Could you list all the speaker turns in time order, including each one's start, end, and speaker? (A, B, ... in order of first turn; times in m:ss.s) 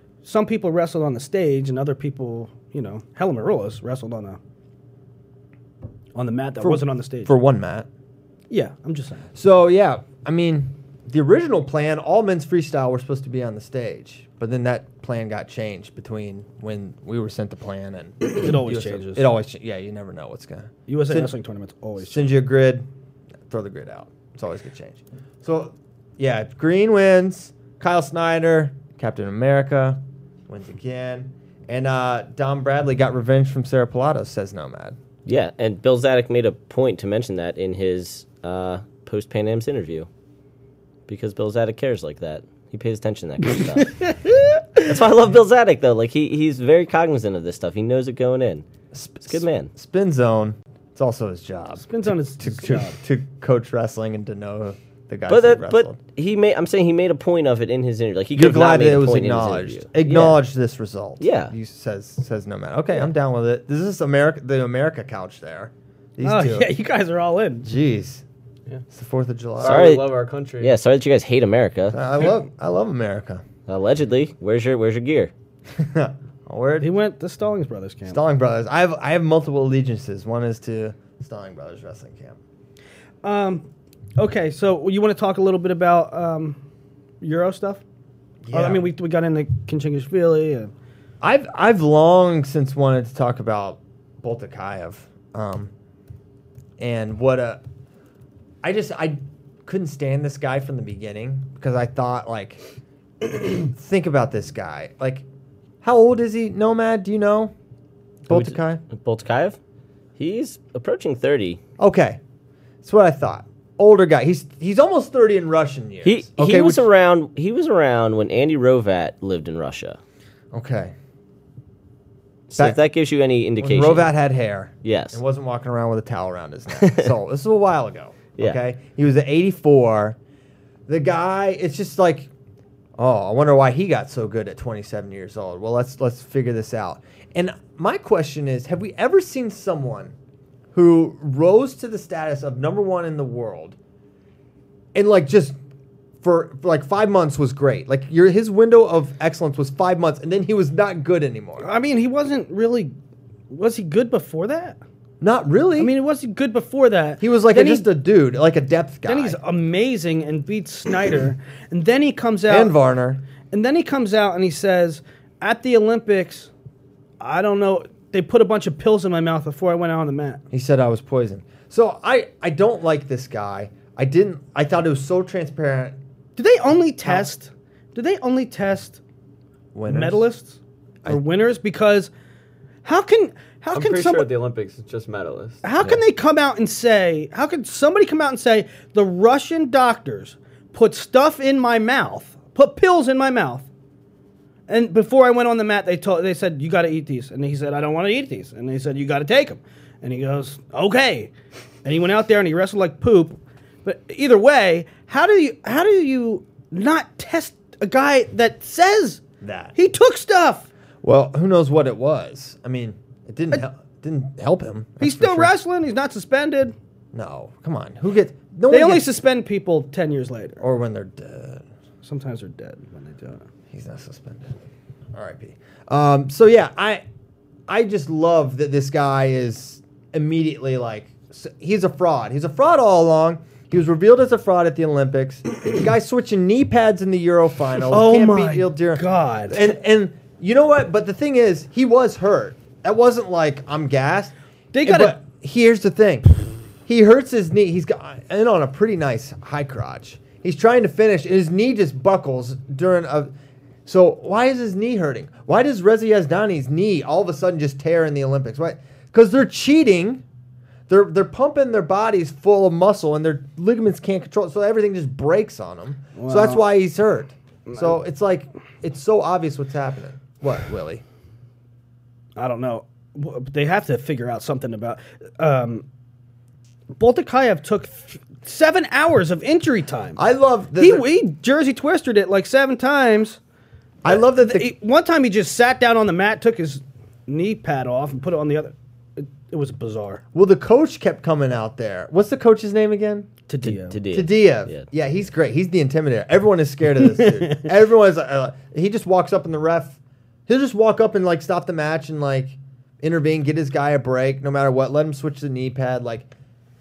0:00.2-0:04.4 A
0:06.2-0:07.4 A
0:06.6-0:07.9 B
0:08.5-0:09.3 A
0:09.4-0:21.3 B
0:18.2-0:19.2 A
0:20.9-0:22.3 A
0:22.0-0:22.9 B
0:23.5-0:35.0 B
0:35.2-0:40.1 C
0:41.1-0:44.0 C
0:44.0-0:44.6 A
0:44.8-0:48.7 C
0:48.9-0:56.0 B
0:49.3-0:49.7 C
0:51.8-0:53.0 A
0:55.3-1:00.4 C
0:58.4-1:06.7 B
1:01.2-1:01.5 C
1:06.2-1:07.7 A
1:07.6-1:08.2 B
1:08.9-1:09.9 B
1:09.6-1:10.8 D
1:09.6-1:12.0 C
1:11.9-1:13.4 B
1:13.7-1:15.3 C
1:15.7-1:16.9 B
1:16.8-1:18.2 A
1:18.1-1:22.4 B
1:23.2-1:26.6 A
1:27.2-1:27.8 A
1:28.4-1:28.9 B
1:28.5-1:30.7 A
1:31.2-1:35.7 B
1:36.8-1:37.6 B
1:38.6-1:42.6 B
1:43.2-1:45.2 B
1:45.8-1:47.5 B
1:48.3-1:48.8 B
1:48.3-1:49.6 C
1:50.2-1:51.6 C
1:51.8-1:52.2 B
1:52.8-1:56.8 B
1:56.0-2:00.0 C
2:00.5-2:00.9 B
2:02.5-2:04.1 C
2:03.6-2:10.2 B
2:04.8-2:05.2 C
2:06.8-2:07.1 C
2:10.9-2:12.3 B
2:13.0-2:20.2 B
2:20.7-2:23.8 B
2:24.9-2:25.6 B
2:26.2-2:31.7 B
2:31.6-2:32.9 A
2:33.5-2:34.8 A
2:35.2-2:35.9 B
2:35.8-2:37.9 A
2:37.2-2:39.4 B
2:39.1-2:42.8 A
2:42.5-2:43.2 B
2:43.5-2:46.5 A
2:47.2-2:50.4 A
2:50.5-2:56.0 B
2:56.4-2:59.0 A
2:59.7-3:00.2 B
2:59.9-3:02.1 A
3:02.8-3:04.3 A
3:03.7-3:05.6 D
3:05.6-3:13.7 A
3:14.7-3:21.3 A
3:21.8-3:29.2 A
3:29.4-3:29.7 B
3:29.8-3:30.7 A
3:31.0-3:35.5 B
3:35.0-3:36.8 A
3:37.1-3:39.1 B
3:38.7-3:40.6 A
3:40.6-3:41.6 B
3:42.0-3:43.5 A
3:43.7-3:44.6 B
3:45.1-3:47.0 B
3:47.7-4:13.3 B
3:57.9-3:59.6 A
4:04.7-4:05.2 A
4:13.9-4:20.2 B
4:20.9-4:31.0 B
4:26.2-4:26.6 A
4:27.7-4:28.0 A
4:32.4-4:35.8 A
4:37.0-4:40.2 A
4:40.2-4:41.1 B
4:40.8-4:43.4 A
4:44.0-4:44.7 B
4:44.1-4:50.2 A
4:50.3-4:53.3 B
4:53.5-4:54.0 A
4:53.6-4:54.9 C
4:54.1-5:06.3 B
4:57.0-4:57.7 A